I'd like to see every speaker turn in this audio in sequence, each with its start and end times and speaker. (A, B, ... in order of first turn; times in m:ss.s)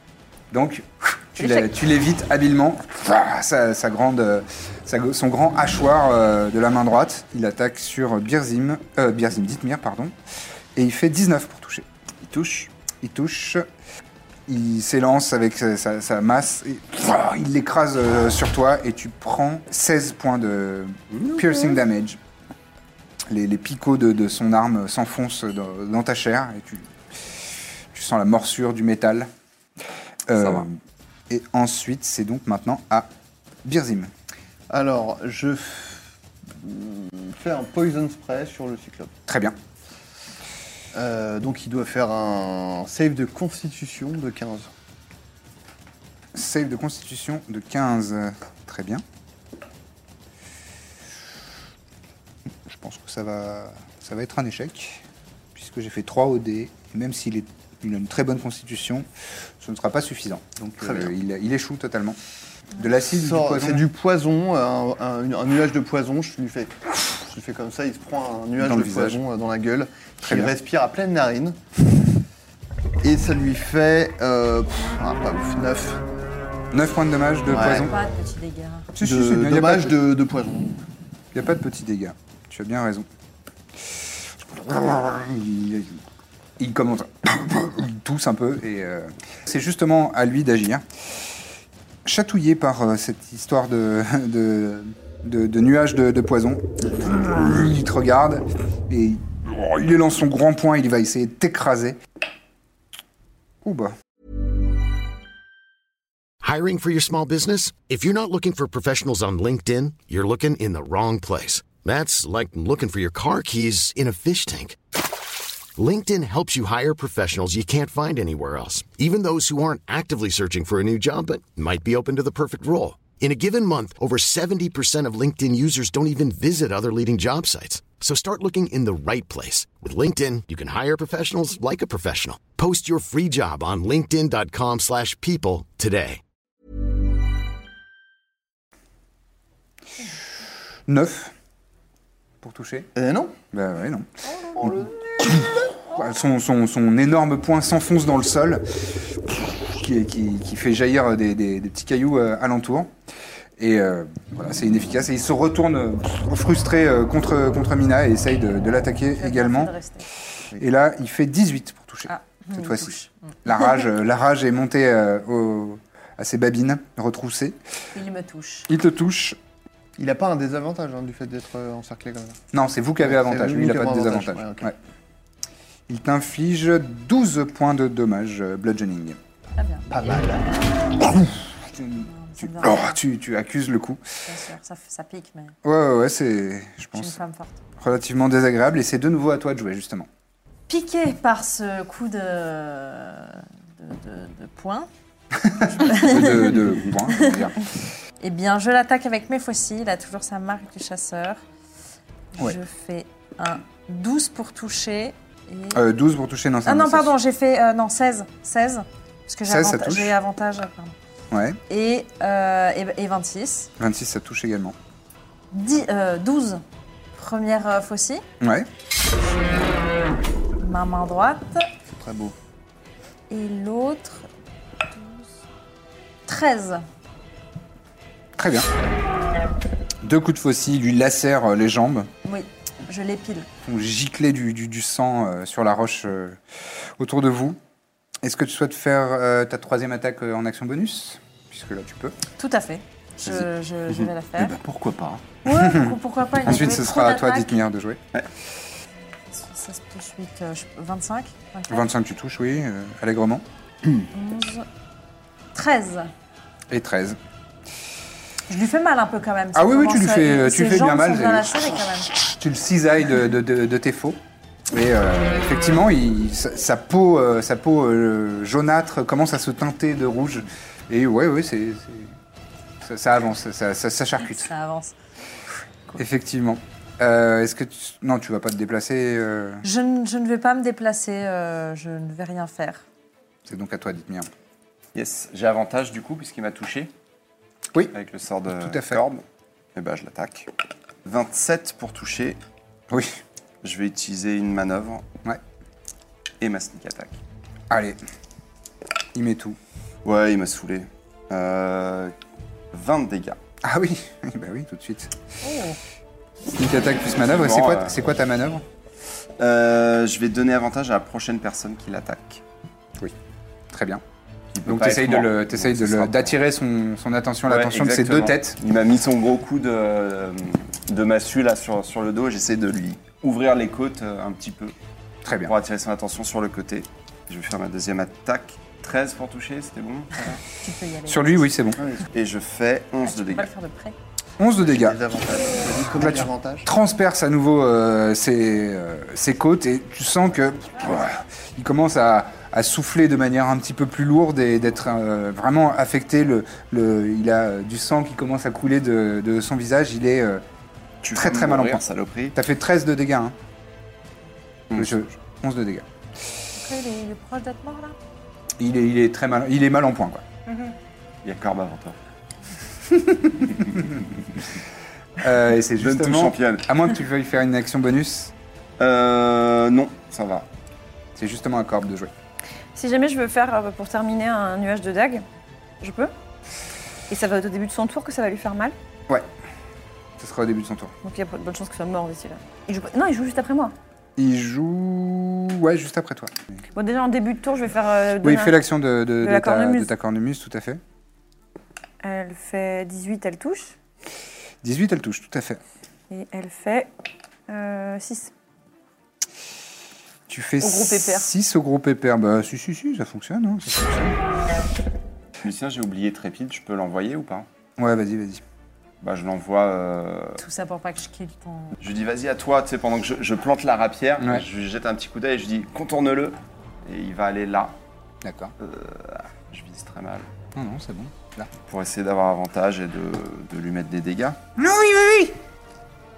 0:00.5-0:10.1 A
0:01.4-0:01.6 B
0:10.8-0:11.9 A
0:12.2-0:12.7 C
0:13.0-0:13.6 A
0:14.5-0:22.2 A
0:21.1-0:21.4 C
0:23.3-0:29.3 A
0:30.3-0:30.8 A
0:30.4-0:30.6 C
0:31.3-0:33.1 A
0:33.6-0:34.1 A
0:34.7-0:39.1 D
0:39.3-0:39.6 A
0:40.9-0:44.7 D
0:46.3-0:49.0 A
0:52.6-0:59.1 A
0:59.6-1:02.2 A
1:00.8-1:01.1 D
1:02.8-1:03.9 A
1:03.0-1:11.6 D
1:08.6-1:09.2 A
1:10.2-1:10.5 A
1:13.0-1:16.0 D
1:16.7-1:17.9 A
1:17.5-1:17.9 D
1:17.7-1:18.9 E
1:19.0-1:20.0 A
1:19.0-1:20.8 D
1:21.3-1:23.1 A
1:23.9-1:26.0 A
1:26.6-1:30.8 A
1:32.0-1:42.0 A
1:43.6-1:44.0 A
1:46.4-1:54.8 F
1:55.8-2:16.2 F
2:20.9-2:21.3 A
2:22.4-2:22.9 A
2:23.0-2:23.3 D
2:23.5-2:32.9 A
2:24.6-2:25.5 D
2:33.6-2:39.7 A
2:39.1-2:40.1 E
2:40.6-2:47.6 A
2:42.1-2:43.3 E
2:48.0-2:48.7 E
2:48.7-2:49.4 A
2:50.0-2:52.4 D
2:52.5-2:54.8 A
2:53.0-2:54.7 D
2:55.9-2:59.2 A
2:59.6-2:59.9 E
2:59.9-3:00.6 D
3:01.2-3:04.0 A
3:02.0-3:03.0 E
3:04.3-3:05.6 E
3:05.6-3:07.2 A
3:06.9-3:07.6 E
3:07.8-3:10.1 A
3:10.7-3:14.9 E
3:15.6-3:17.6 A
3:15.8-3:16.5 E
3:18.2-3:21.4 E
3:22.4-3:25.8 E
3:25.7-3:27.1 A
3:26.6-3:31.0 E
3:29.5-3:30.1 A
3:31.3-3:31.6 A
3:31.7-3:33.7 E
3:33.8-3:34.8 A
3:35.5-3:36.6 E
3:37.1-3:38.2 E
3:38.4-3:38.7 A
3:39.4-3:39.8 E
3:40.6-3:41.7 E
3:41.9-3:42.4 D
3:43.3-3:44.3 E
3:44.9-3:45.3 E
3:46.3-3:46.8 E
3:48.4-3:48.7 A
3:50.0-3:52.1 A
3:52.2-3:53.5 E
3:53.6-3:56.4 A
3:57.0-3:57.6 A
3:58.2-4:02.2 A
4:02.4-4:04.6 E
4:03.3-4:05.2 C
4:05.4-4:07.5 E
4:05.5-4:08.0 A
4:09.3-4:11.9 E
4:11.7-4:13.4 A
4:14.1-4:14.7 E
4:15.5-4:16.1 E
4:16.7-4:17.2 A
4:18.5-4:22.1 E
4:19.5-4:32.1 A
4:32.8-4:34.5 A
4:34.2-4:34.9 E
4:36.0-4:39.6 A
4:39.6-4:42.8 E
4:43.4-4:44.3 A
4:45.0-4:46.9 C
4:47.9-4:49.2 C
4:48.6-4:49.0 A
4:49.8-4:50.5 C
4:51.0-4:52.4 C
4:52.9-4:53.2 A
4:53.6-4:55.0 C
4:56.4-4:57.2 C
4:57.7-4:58.0 A
4:59.1-4:59.6 A
5:00.0-5:02.1 C
5:02.7-5:03.4 C
5:03.6-5:05.1 A
5:05.4-5:05.8 E
5:06.5-5:08.6 A
5:07.2-5:08.0 C
5:09.4-5:12.4 C
5:13.7-5:14.0 A
5:14.5-5:16.4 C
5:14.6-5:18.6 A
5:17.5-5:24.8 C
5:25.2-5:25.5 A
5:25.4-5:30.3 C
5:30.2-5:31.9 E
5:31.1-5:31.8 A
5:32.1-5:33.5 C
5:33.0-5:34.0 E
5:34.4-5:35.0 A
5:34.6-5:36.7 D
5:36.0-5:50.4 A
5:51.0-5:52.4 C
5:51.1-5:51.8 A
5:52.4-5:53.4 A
5:54.7-5:55.9 A
5:56.6-5:58.0 E
5:58.6-6:00.2 A
6:01.2-6:02.0 C
6:02.9-6:03.5 A
6:05.2-6:08.3 A
6:05.8-6:06.6 C
6:08.8-6:10.5 C
6:11.2-6:12.1 A
6:12.8-6:15.2 B
6:15.8-6:16.1 B
6:17.1-6:18.8 B
6:20.2-6:20.9 A
6:21.0-6:23.7 B
6:24.2-6:26.4 A
6:26.8-6:28.6 B
6:28.2-6:30.8 A
6:29.2-6:29.9 B
6:32.0-6:33.8 B
6:34.6-6:35.6 A
6:36.1-6:36.9 B
6:37.5-6:38.3 B
6:40.3-6:44.2 A
6:40.6-6:41.3 B
6:45.4-6:47.5 C
6:47.8-6:48.4 A
6:49.0-6:50.4 C
6:50.4-6:51.8 E
6:51.8-6:57.8 C
6:54.2-6:54.4 A
6:58.2-6:58.5 A
6:58.6-7:00.3 C
7:00.6-7:01.5 A
7:01.7-7:04.4 C
7:04.6-7:05.4 A